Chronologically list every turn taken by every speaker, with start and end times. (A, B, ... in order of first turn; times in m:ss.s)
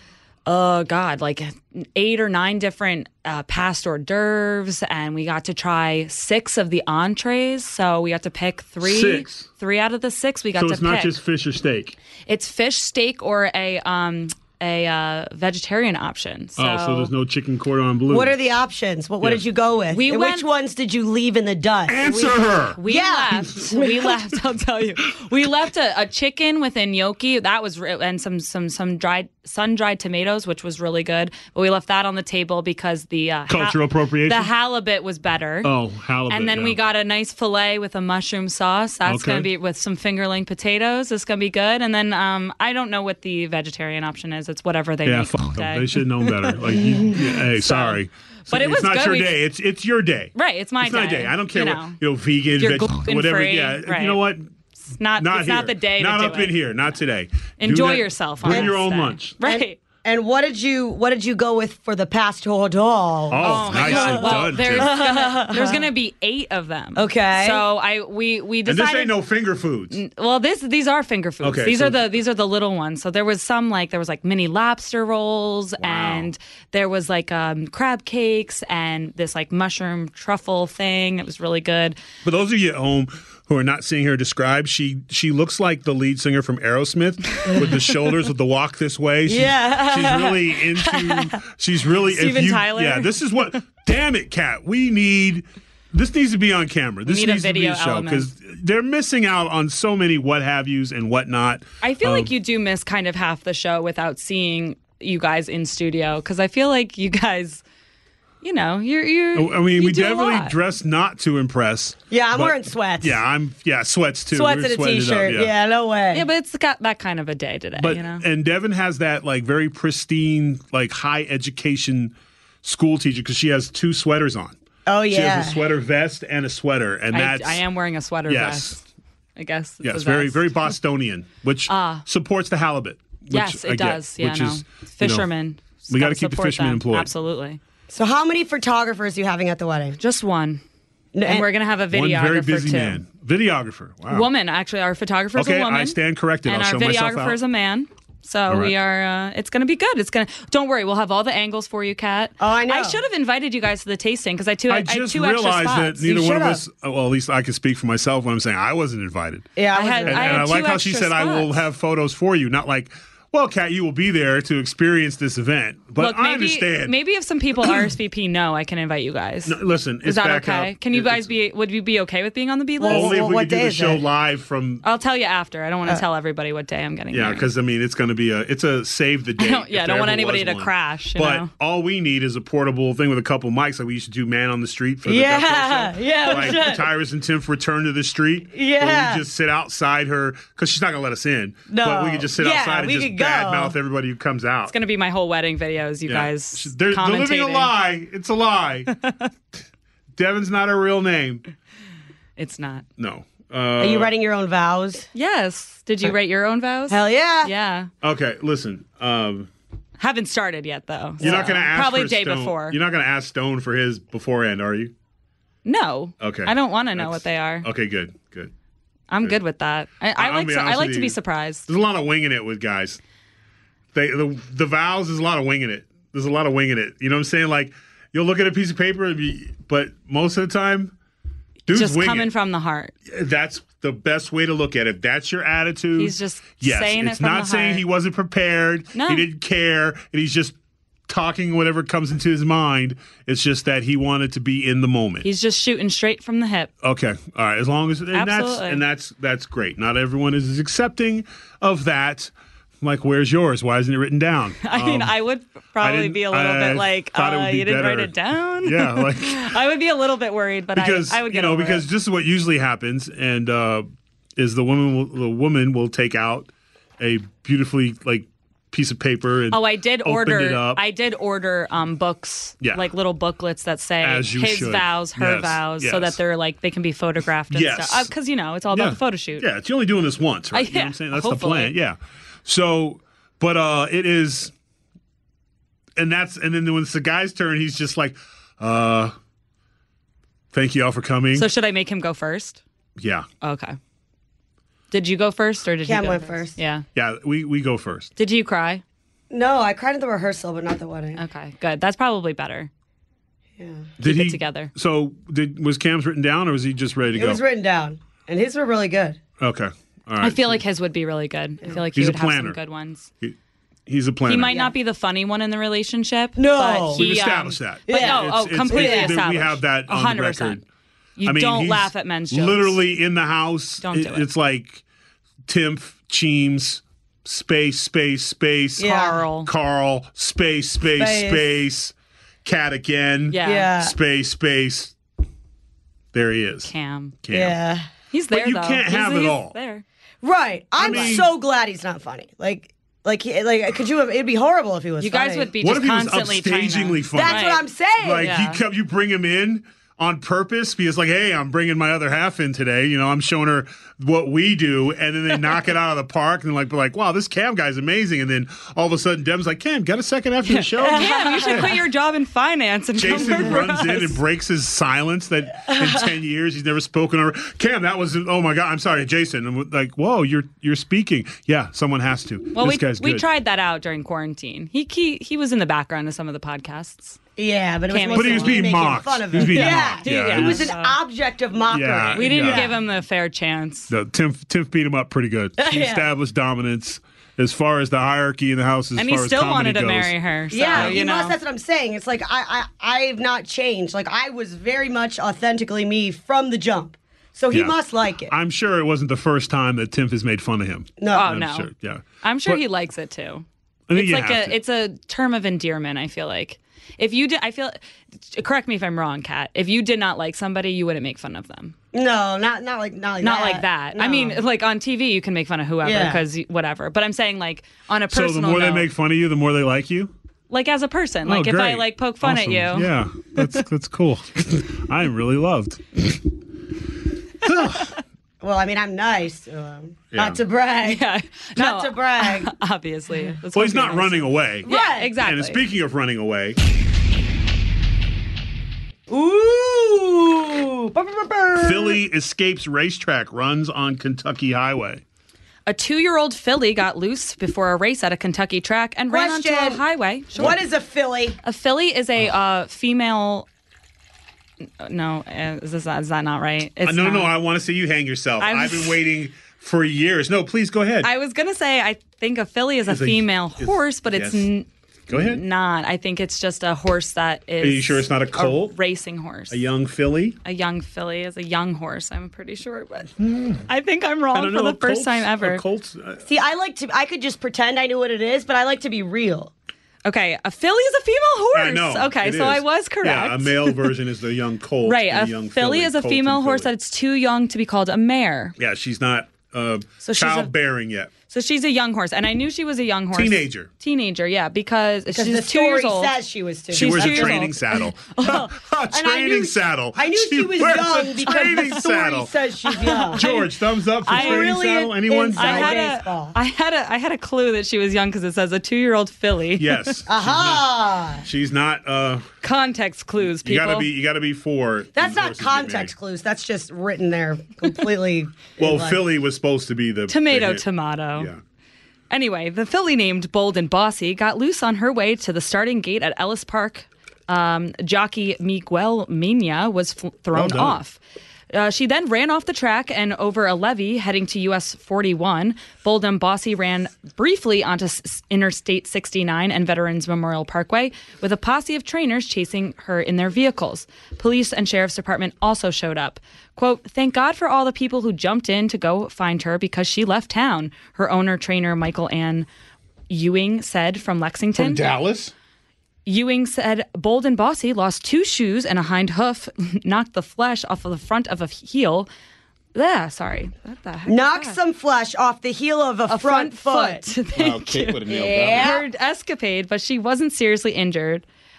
0:00.5-0:11.1 A
0:08.8-0:09.5 B
0:10.6-0:12.0 B
0:12.3-0:17.1 A
0:16.6-0:18.4 B
0:18.1-0:22.1 C
0:19.9-0:20.5 A
0:21.9-0:22.8 B
0:22.0-0:35.7 A
0:22.9-0:24.2 C
0:33.5-0:34.5 B
0:35.6-0:36.8 B
0:36.3-0:49.4 A
0:39.0-0:39.5 B
0:45.0-0:54.5 B
0:50.4-0:52.0 A
0:52.6-0:54.2 A
0:54.9-0:56.6 A
0:55.2-0:59.4 B
0:57.6-0:59.8 A
0:58.5-0:58.7 C
0:59.4-1:05.9 C
1:03.3-1:05.0 B
1:03.4-1:09.2 A
1:07.0-1:07.6 C
1:08.6-1:10.0 B
1:09.9-1:22.0 A
1:11.4-1:12.0 B
1:15.8-1:16.3 B
1:22.2-1:42.3 B
1:29.3-1:31.2 C
1:32.1-1:33.2 A
1:37.1-1:38.3 A
1:41.8-1:47.6 A
1:48.4-1:50.5 A
1:49.4-1:55.5 B
1:52.1-1:53.2 C
1:54.3-1:56.2 C
1:56.1-1:58.2 A
1:57.8-2:04.6 B
2:04.9-2:05.6 C
2:05.1-2:07.6 B
2:07.1-2:08.8 A
2:08.3-2:08.8 B
2:09.4-2:10.5 A
2:09.8-2:15.3 B
2:11.7-2:12.0 A
2:13.3-2:17.6 A
2:15.9-2:17.1 B
2:17.9-2:20.0 C
2:20.0-2:20.6 A
2:21.1-2:21.5 C
2:21.3-2:23.0 A
2:21.9-2:24.3 B
2:24.1-2:36.1 A
2:25.4-2:27.4 B
2:28.5-2:28.7 B
2:32.4-2:33.0 C
2:34.7-2:39.5 B
2:36.0-2:36.6 C
2:39.6-2:40.5 C
2:39.7-2:41.6 A
2:40.1-2:47.0 B
2:46.0-2:53.2 A
2:47.6-2:47.9 B
2:49.5-2:51.4 B
2:52.8-2:54.0 C
2:52.9-2:54.8 B
2:54.8-2:57.5 A
2:57.1-3:14.7 B
2:59.4-3:01.5 A
3:05.0-3:06.9 C
3:08.5-3:09.2 C
3:11.7-3:13.8 C
3:14.7-3:17.7 A
3:16.1-3:18.9 B
3:20.2-3:21.4 B
3:22.4-3:22.8 A
3:23.0-3:24.1 B
3:23.8-3:25.1 C
3:25.1-3:27.9 A
3:26.9-3:27.5 C
3:28.0-3:29.5 B
3:30.0-3:32.8 A
3:31.2-3:34.9 B
3:31.2-3:31.5 C
3:35.6-3:37.7 A
3:36.2-3:38.5 B
3:39.1-3:41.7 A
3:40.2-3:43.0 B
3:43.9-3:50.9 B
3:51.7-3:52.3 B
3:51.7-3:52.9 A
3:53.1-4:00.6 B
3:56.0-3:57.8 A
3:58.9-3:59.2 A
4:01.1-4:05.3 B
4:05.2-4:06.7 A
4:06.8-4:15.1 B
4:08.1-4:08.8 A
4:14.6-4:21.8 A
4:15.8-4:19.6 B
4:20.7-4:30.8 B
4:29.5-4:39.5 A
4:32.6-4:32.9 B
4:34.0-4:36.2 B
4:37.5-4:38.1 B
4:38.7-4:44.5 B
4:40.5-4:41.7 A
4:46.0-4:49.2 B
4:50.5-4:51.5 B
4:51.3-4:52.6 A
4:53.0-4:53.3 B
4:53.4-4:53.8 A
4:54.9-4:56.9 A
4:55.8-4:56.6 C
4:57.0-4:58.1 B
4:58.2-4:58.8 A
4:59.3-5:01.2 C
5:01.2-5:02.7 A
5:03.6-5:03.9 C
5:04.0-5:07.4 B
5:04.0-5:04.7 A
5:07.1-5:09.2 C
5:09.4-5:10.6 B
5:10.2-5:13.1 A
5:11.8-5:12.6 B
5:13.9-5:14.6 B
5:14.2-5:20.6 A
5:16.4-5:17.1 C
5:16.9-5:20.6 B
5:17.9-5:19.2 C
5:21.2-5:22.8 A
5:21.2-5:24.8 B
5:23.8-5:24.3 A
5:25.5-5:35.0 B
5:28.8-5:29.2 C
5:28.8-5:29.5 A
5:31.0-5:31.6 C
5:33.3-5:33.7 A
5:33.4-5:34.0 C
5:36.1-5:37.6 B
5:36.6-5:37.2 A
5:37.3-5:37.9 C
5:38.1-5:39.8 A
5:38.3-5:39.6 B
5:40.2-5:45.5 C
5:40.8-5:41.3 B
5:40.8-5:41.2 A
5:45.0-5:47.7 A
5:45.6-6:01.8 B
5:47.1-5:48.3 C
5:48.2-5:48.6 A
6:00.5-6:04.2 A
6:00.9-6:01.6 C
6:03.0-6:13.3 B
6:12.6-6:17.2 A
6:17.4-6:22.8 C
6:17.9-6:18.7 A
6:18.1-6:20.7 B
6:19.4-6:21.0 A
6:21.7-6:22.7 B
6:22.2-6:23.9 A
6:23.9-6:30.1 B
6:25.6-6:26.1 C
6:29.0-6:31.4 A
6:30.5-6:38.3 C
6:30.6-6:31.0 B
6:37.5-6:42.6 B
6:41.0-6:41.3 C
6:41.1-6:41.7 A
6:42.2-6:51.8 A
6:43.9-6:44.6 B
6:51.9-6:54.4 C
6:53.2-6:58.9 A
6:55.8-6:56.2 C
6:58.1-7:00.1 B
7:00.5-7:03.6 A
7:01.3-7:06.2 B
7:07.4-7:07.9 B
7:08.4-7:11.0 C
7:10.1-7:10.4 B
7:10.8-7:15.6 A
7:11.6-7:12.5 C
7:13.5-7:16.6 B
7:14.7-7:15.1 C
7:19.1-7:22.0 C
7:21.6-7:25.0 B
7:25.7-7:30.6 A
7:29.1-7:29.8 C
7:30.3-7:31.4 C
7:31.4-7:33.5 A
7:34.8-7:37.3 A
7:36.8-7:41.1 B
7:38.4-7:39.0 A
7:41.0-7:49.6 A
7:42.9-7:44.5 B
7:45.1-7:45.4 B
7:47.6-7:48.8 B
7:49.5-7:50.4 B
7:50.4-7:53.1 A
7:53.2-7:53.7 B
7:53.7-7:55.6 A
7:54.3-7:56.2 B
7:56.3-7:59.5 C
8:00.0-8:03.9 A
8:01.5-8:06.7 B
8:04.8-8:08.6 A
8:08.6-8:11.1 B
8:10.0-8:10.5 A
8:11.3-8:16.2 A
8:13.1-8:13.7 B
8:15.1-8:17.5 C
8:16.7-8:18.5 A
8:16.7-8:22.3 B
8:18.9-8:23.3 C
8:22.8-8:23.5 A
8:23.1-8:25.9 B
8:24.0-8:24.6 A
8:24.1-8:26.4 C
8:25.4-8:30.0 A
8:29.6-8:32.3 B
8:30.1-8:31.3 C
8:32.4-8:33.9 A
8:33.2-8:35.9 B
8:35.0-8:39.0 C
8:38.6-8:41.4 B
8:40.1-8:41.3 A
8:42.1-8:51.0 A
8:50.3-8:50.8 B
8:51.5-9:12.5 A
9:13.1-9:14.8 A
9:14.6-9:15.3 B
9:16.1-9:22.1 A
9:22.7-9:24.6 A
9:24.1-9:27.1 C
9:26.1-9:31.2 A
9:27.4-9:28.8 B
9:28.1-9:28.9 C